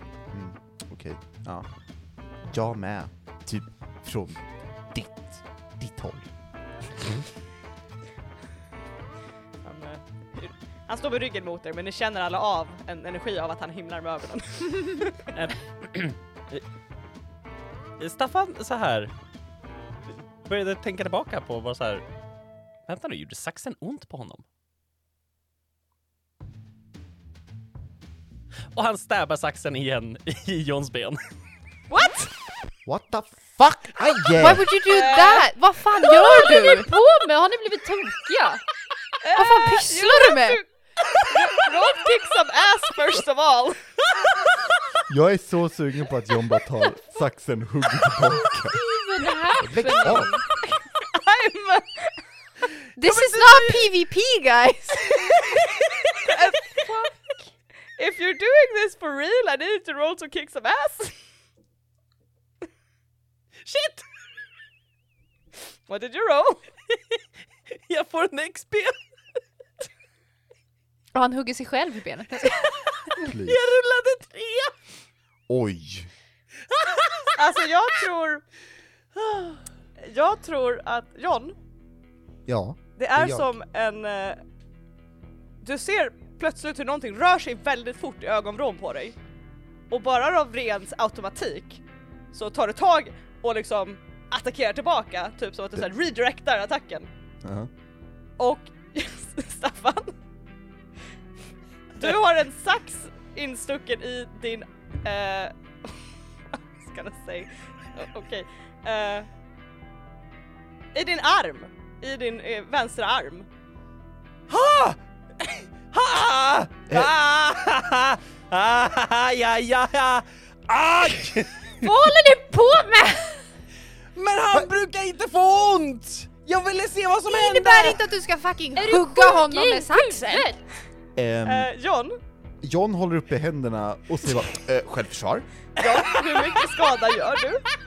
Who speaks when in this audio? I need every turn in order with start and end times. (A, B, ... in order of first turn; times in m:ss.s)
0:00.3-0:01.7 A
0:02.5-0:06.3 A
0:09.6-0:15.3 B
0:15.3-0:16.6 C
0:18.0-0:19.1 C
0:20.4-0:22.0 C
0:22.9-0:24.4 C
0:28.7-0:31.2 C
0:31.9-0:32.3 B
0:32.9-0:34.7 A
0:34.4-0:36.9 D
0:34.8-0:35.5 B
0:36.2-0:38.6 E
0:39.2-0:43.8 B
0:39.4-0:40.6 D
0:45.1-0:48.8 A
0:48.7-0:50.5 E
0:49.6-0:50.3 A
0:50.6-0:52.2 B
0:53.0-0:55.8 D
0:53.0-0:53.9 B
0:56.2-0:57.1 B
0:56.7-0:57.5 E
0:58.0-1:01.2 B
1:03.7-1:04.0 C
1:05.9-1:06.6 B
1:07.9-1:09.0 C
1:11.1-1:12.7 D
1:13.2-1:13.6 A
1:13.5-1:14.7 C
1:15.5-1:16.1 A
1:16.9-1:17.3 C
1:17.4-1:18.4 B
1:20.0-1:21.6 B
1:22.5-1:23.5 A
1:23.0-1:24.4 B
1:25.6-1:29.2 B
1:29.9-1:31.8 B
1:32.3-1:37.1 B
1:37.4-1:37.7 A
1:38.4-1:40.2 B
1:42.0-1:49.3 B
1:50.9-1:53.5 B
1:54.5-1:55.0 C
1:55.9-2:01.9 C
2:01.8-2:03.5 E
2:04.2-2:08.0 C
2:07.3-2:10.5 D
2:08.8-2:10.6 E
2:11.2-2:11.7 A
2:11.4-2:12.2 B
2:12.6-2:15.5 A
2:15.8-2:17.7 B